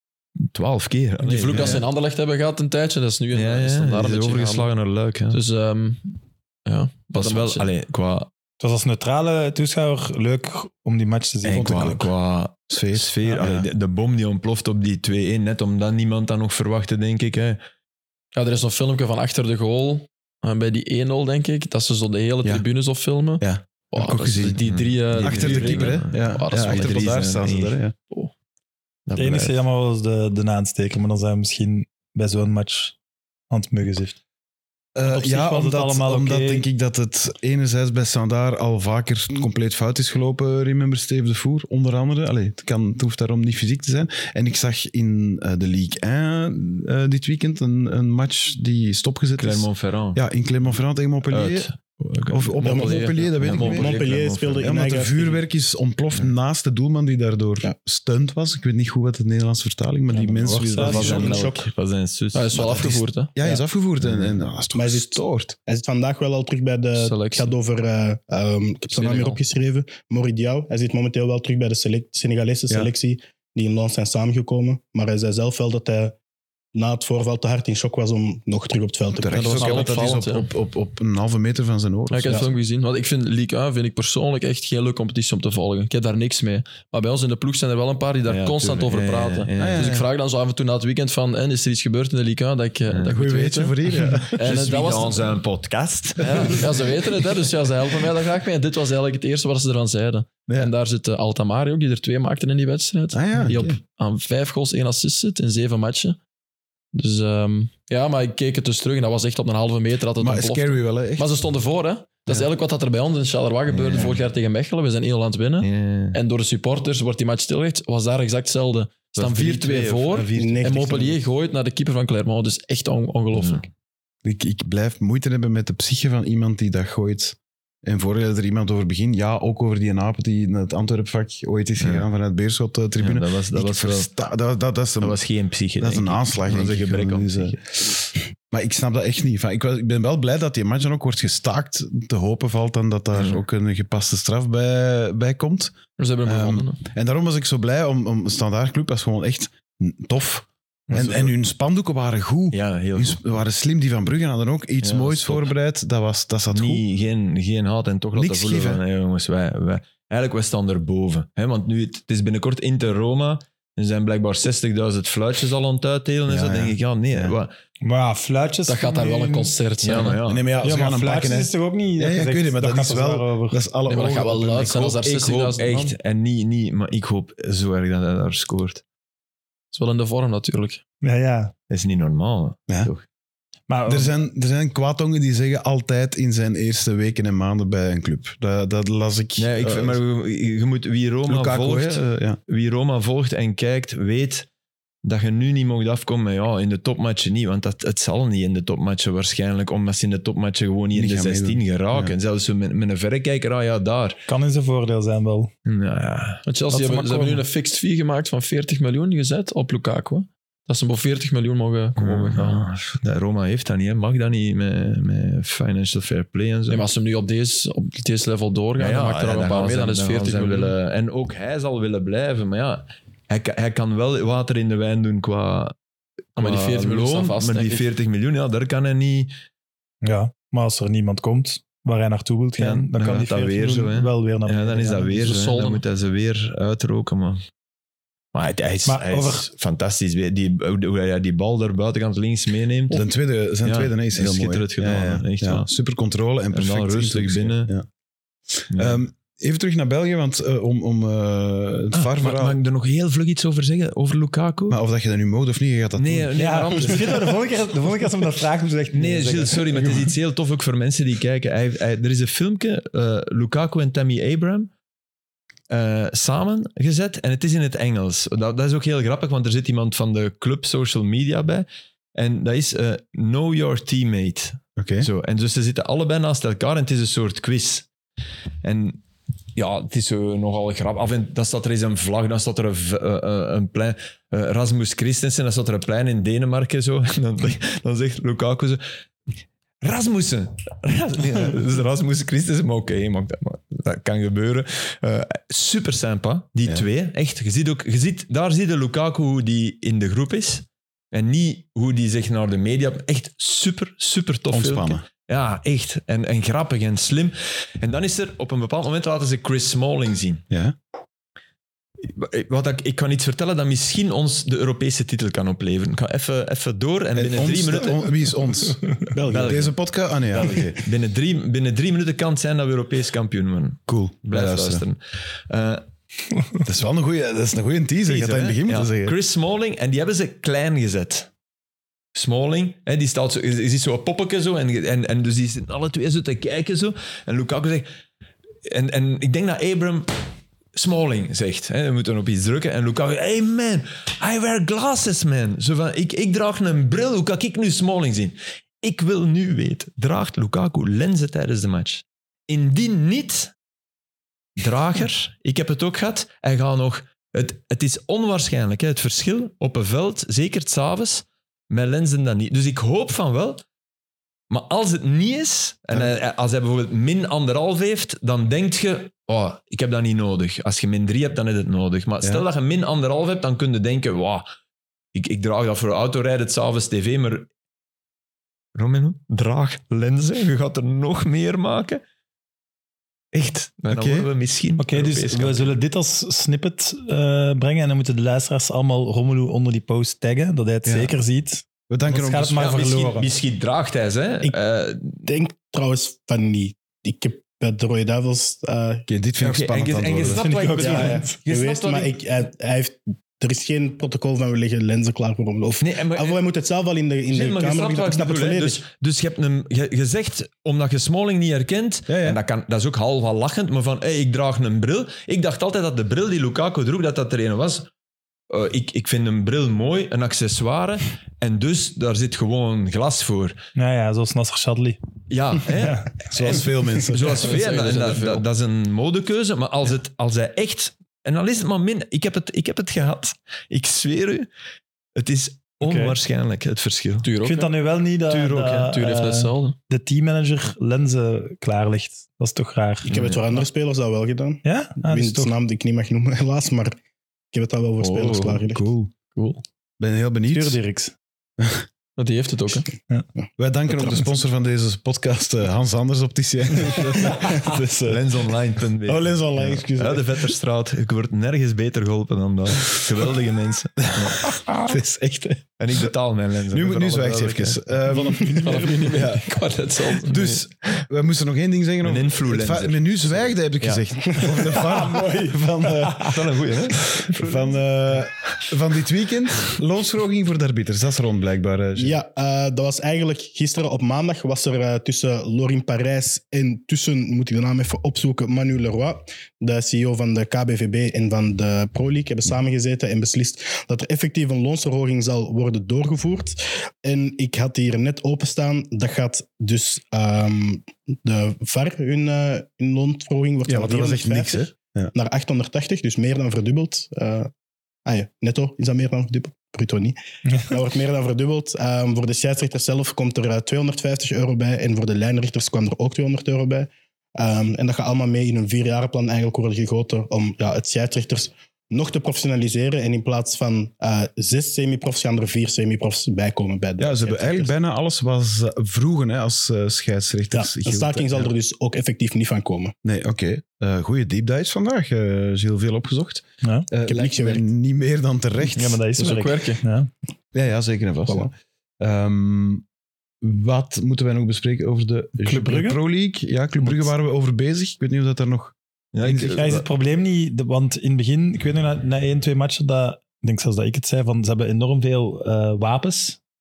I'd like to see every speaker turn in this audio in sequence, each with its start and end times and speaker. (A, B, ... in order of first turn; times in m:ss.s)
0:00.4-0:01.8 A
0:01.2-0:04.7 B
0:01.5-0:01.8 C
0:03.3-0:05.4 A
0:05.3-0:07.7 B
0:07.1-0:08.3 A
0:08.6-0:12.0 D
0:11.4-0:17.6 A
0:11.5-0:12.1 C
0:12.7-0:13.7 C
0:18.3-0:27.1 B
0:23.4-0:24.6 C
0:24.6-0:27.8 A
0:25.2-0:27.9 C
0:29.0-0:29.6 A
0:29.1-0:33.0 D
0:33.5-0:34.2 D
0:34.9-0:51.7 C
0:35.0-0:36.6 D
0:49.4-0:50.2 A
0:51.3-0:54.7 A
0:52.3-0:53.9 C
0:52.6-0:53.8 B
0:52.6-0:55.4 E
0:54.6-1:01.5 C
1:00.1-1:01.0 D
1:00.8-1:02.7 A
1:00.8-1:01.7 E
1:02.3-1:03.6 B
1:02.5-1:05.6 C
1:04.0-1:04.4 A
1:04.7-1:16.1 E
1:07.0-1:07.5 B
1:08.9-1:09.4 B
1:16.7-1:20.0 E
1:19.2-1:22.4 C
1:19.3-1:20.4 B
1:22.1-1:33.8 B
1:22.2-1:22.5 E
1:28.2-1:30.0 A
1:29.6-1:30.0 C
1:33.1-1:34.6 C
1:34.3-1:35.4 B
1:34.4-1:36.7 A
1:36.2-1:46.2 B
1:43.1-1:43.8 C
1:46.9-2:03.7 B
1:50.2-1:51.3 C
1:53.7-1:54.2 A
1:55.6-1:56.2 A
1:59.1-2:00.7 A
2:00.3-2:01.2 E
2:03.3-2:03.6 A
2:04.2-2:15.2 C
2:11.8-2:12.0 A
2:13.0-2:14.1 A
2:15.0-2:17.6 A
2:15.8-2:36.8 C
2:23.1-2:23.4 A
2:26.0-2:26.8 B
2:30.9-2:31.2 D
2:32.5-2:33.4 A
2:34.8-2:35.5 A
2:36.5-2:47.5 A
2:38.1-2:38.8 C
2:46.3-2:47.4 C
2:47.8-2:49.6 D
2:48.7-2:50.2 B
2:49.8-2:50.4 A
2:50.2-2:55.0 C
2:50.6-2:53.6 D
2:53.9-2:55.8 B
2:55.0-2:58.8 A
2:59.7-3:00.8 B
3:01.0-3:01.5 D
3:01.7-3:03.0 A
3:03.7-3:04.1 D
3:03.9-3:10.0 C
3:09.4-3:14.5 A
3:11.3-3:12.4 C
3:15.0-3:24.2 A
3:20.9-3:22.1 C
3:24.3-3:25.5 D
3:25.6-3:26.4 A
3:26.4-3:32.6 B
3:26.7-3:27.4 D
3:32.0-3:36.8 A
3:36.7-3:40.7 B
3:38.8-3:45.7 A
3:46.4-3:49.3 A
3:46.4-3:47.9 B
3:50.0-3:55.1 D
3:52.6-3:57.4 A
3:55.1-3:55.8 B
3:58.3-4:03.0 A
3:58.8-3:59.5 D
4:02.9-4:07.8 C
4:03.6-4:05.7 A
4:06.5-4:07.7 A
4:08.7-4:09.0 A
4:08.7-4:12.6 C
4:11.9-4:14.8 A
4:14.7-4:16.4 C
4:16.0-4:17.4 A
4:16.3-4:20.1 D
4:18.9-4:24.7 A
4:25.7-4:37.9 A
4:34.8-4:35.1 C
4:38.6-4:39.0 A
4:39.5-4:48.8 A
4:49.8-5:10.4 A
5:04.5-5:05.0 C
5:10.5-5:10.7 C
5:12.0-5:18.2 A
5:17.1-5:20.8 C
5:19.2-5:19.8 A
5:20.3-5:25.8 A
5:23.9-5:24.8 C
5:26.6-5:29.1 C
5:28.0-5:31.3 A
5:32.1-5:37.9 A
5:38.6-5:40.1 A
5:40.7-5:53.5 A
5:54.6-6:03.6 A
6:04.5-6:14.4 A
6:15.1-6:17.5 A
6:18.7-6:22.0 A
6:23.3-6:25.7 A
6:23.9-6:24.3 C
6:24.8-6:33.3 D
6:31.9-6:32.9 C
6:32.6-6:35.2 A
6:35.2-6:39.0 E
6:39.1-6:40.4 C
6:39.4-6:42.2 A
6:40.3-6:41.4 D
6:40.8-6:48.8 E
6:45.8-6:46.4 A
6:47.3-6:57.9 A
6:52.1-6:52.4 C
6:58.5-7:03.6 A
7:03.8-7:05.0 D
7:05.3-7:14.5 A
7:05.7-7:06.1 D
7:06.3-7:07.6 C
7:07.3-7:08.4 B
7:15.1-7:17.3 A
7:15.8-7:16.2 D
7:17.2-7:17.7 B
7:17.4-7:23.6 D
7:18.3-7:19.0 A
7:18.9-7:19.8 B
7:23.0-7:26.9 E
7:23.1-7:23.4 A
7:24.6-7:25.5 D
7:27.5-7:28.8 E
7:28.0-7:29.1 C
7:29.3-7:29.6 B
7:30.0-7:30.8 C
7:30.5-7:31.1 D
7:31.6-7:31.8 C
7:32.2-7:32.9 B
7:33.6-7:40.5 C
7:38.1-7:44.6 A
7:44.1-7:46.0 C
7:45.8-7:47.8 A
7:46.7-7:49.6 C
7:48.1-7:48.8 D
7:48.6-7:50.3 B
7:50.2-7:56.4 C
7:50.2-7:51.0 A
7:52.0-7:54.0 A
7:56.2-7:57.7 A
7:57.2-8:02.2 C
8:02.0-8:27.5 E
8:23.7-8:25.1 C
8:28.0-8:47.7 E
8:47.0-8:51.5 C
8:50.5-8:52.9 E
8:53.0-8:59.0 C
8:56.6-8:56.9 D
8:57.1-8:57.7 E
8:58.6-9:00.1 D
8:59.2-8:59.8 B
9:00.5-9:02.8 C
9:03.4-9:09.7 C
9:05.4-9:06.0 D
9:09.1-9:09.8 A
9:09.5-9:16.4 D